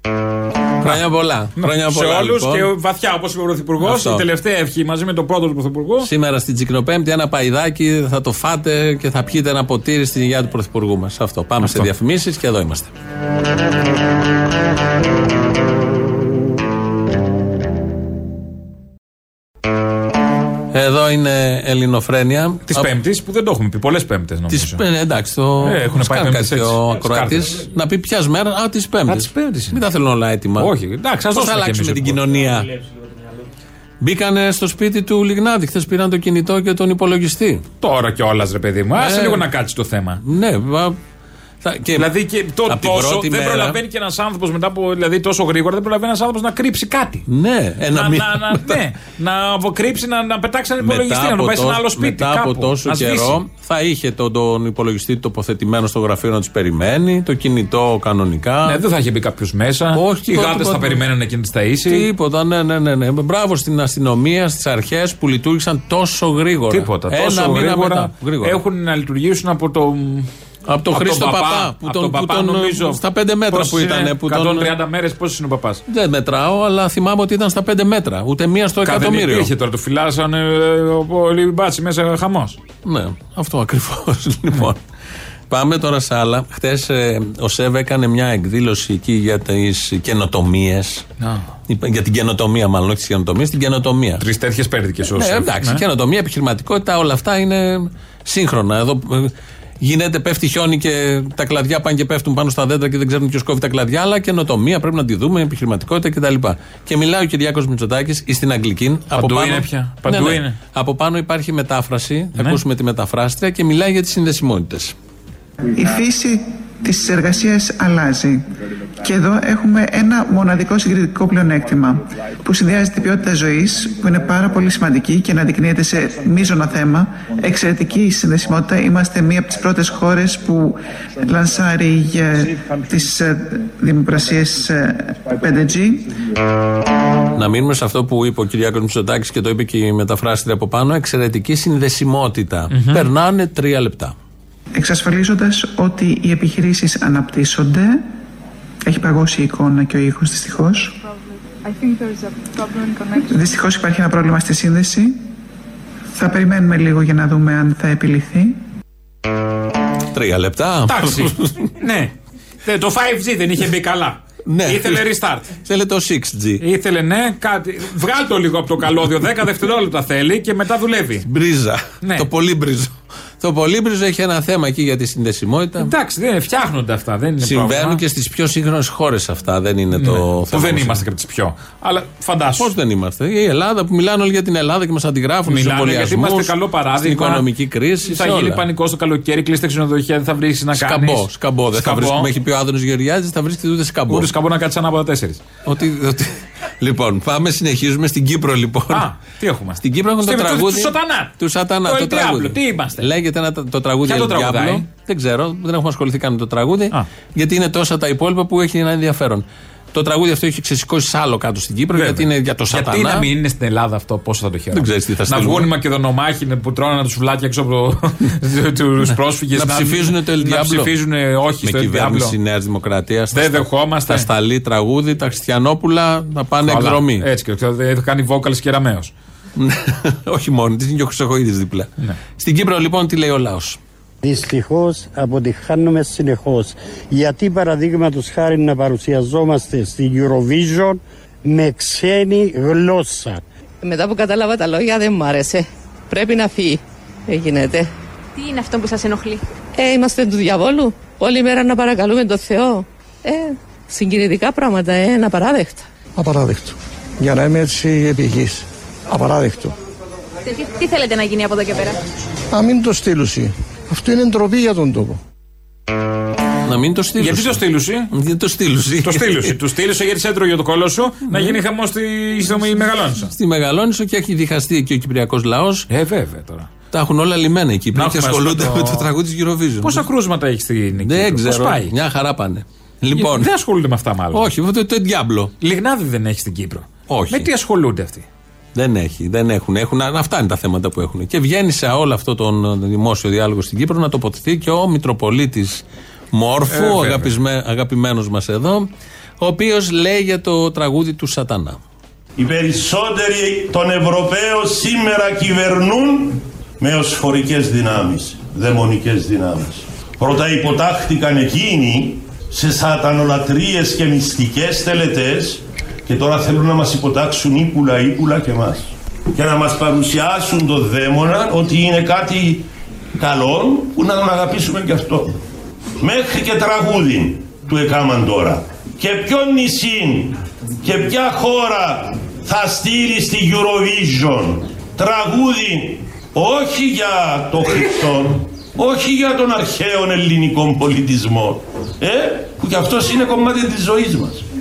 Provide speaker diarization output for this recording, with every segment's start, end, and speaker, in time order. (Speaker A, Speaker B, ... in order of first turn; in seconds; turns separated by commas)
Speaker A: 0.8-2.7, Speaker B: 1.6-6.1, Speaker A: 3.8-4.2, Speaker A: 6.0-12.9, Speaker B: 11.6-11.9, Speaker A: 20.7-22.9, Speaker B: 22.7-24.8, Speaker A: 24.5-30.7, Speaker B: 25.6-27.7, Speaker B: 29.1-29.8, Speaker B: 30.6-32.3, Speaker A: 31.3-32.7, Speaker A: 34.0-37.7, Speaker B: 37.8-40.2, Speaker A: 39.0-39.5, Speaker A: 40.2-41.0, Speaker A: 41.6-42.1, Speaker B: 42.0-47.3, Speaker A: 42.7-43.8, Speaker A: 47.3-48.8, Speaker B: 47.9-53.4, Speaker A: 50.8-58.8, Speaker B: 58.7-62.1, Speaker A: 59.9-61.0, Speaker A: 61.9-68.6, Speaker B: 66.7-70.3, Speaker A: 70.7-74.7, Speaker B: 70.9-75.8, Speaker A: 75.9-79.5, Speaker B: 78.8-82.6, Speaker A: 82.8-84.8, Speaker A: 85.5-91.0, Speaker A: 91.7-94.2, Speaker B: 94.2-95.8, Speaker A: 95.2-115.0, Speaker B: 109.2-110.6, Speaker C: 115.7-118.5, Speaker C: 119.0-136.1, Speaker A: 137.3-144.2, Speaker B: 142.7-143.1, Speaker C: 144.7-148.1, Speaker C: 148.8-151.0, Speaker C: 153.1-155.2, Speaker C: 156.2-158.6, Speaker A: 160.1-161.7, Speaker B: 160.9-162.1, Speaker B: 162.7-165.5, Speaker A: 164.5-166.6, Speaker B: 166.6-171.3, Speaker A: 171.2-175.9, Speaker B: 175.8-178.0, Speaker A: 177.4-181.0, Speaker B: 179.9-182.7, Speaker A: 182.6-188.6, Speaker B: 185.5-187.5, Speaker B: 188.1-192.3, Speaker A: 190.8-194.3, Speaker B: 194.1-195.4, Speaker A: 195.7-199.1, Speaker B: 198.9-203.1, Speaker A: 199.8-213.3, Speaker B: 204.1-204.9, Speaker B: 211.9-222.4, Speaker A: 214.7-215.7, Speaker A: 219.1-220.9, Speaker A: 221.6-227.3, Speaker B: 223.3-224.3, Speaker B: 226.7-229.1, Speaker A: 229.6-233.8, Speaker D: 234.2-243.4, Speaker E: 243.8-247.9, Speaker F: 248.3-249.4, Speaker E: 249.8-255.9, Speaker G: 256.2-259.7, Speaker F: 260.4-262.0, Speaker G: 262.5-265.2, Speaker A: 266.6-269.5, Speaker B: 267.2-268.1, Speaker B: 269.0-273.3, Speaker A: 271.3-271.6, Speaker A: 273.2-275.9, Speaker B: 275.9-276.7, Speaker A: 276.9-280.1, Speaker B: 277.9-279.1, Speaker B: 279.8-281.9, Speaker A: 281.0-283.5, Speaker B: 283.1-284.5, Speaker A: 284.3-285.5, Speaker B: 285.6-288.3, Speaker A: 287.1-287.5, Speaker A: 288.8-301.8, Speaker B: 296.7-297.3, Speaker H: 302.4-322.7, Speaker H: 323.2-325.4, Speaker H: 326.0-344.4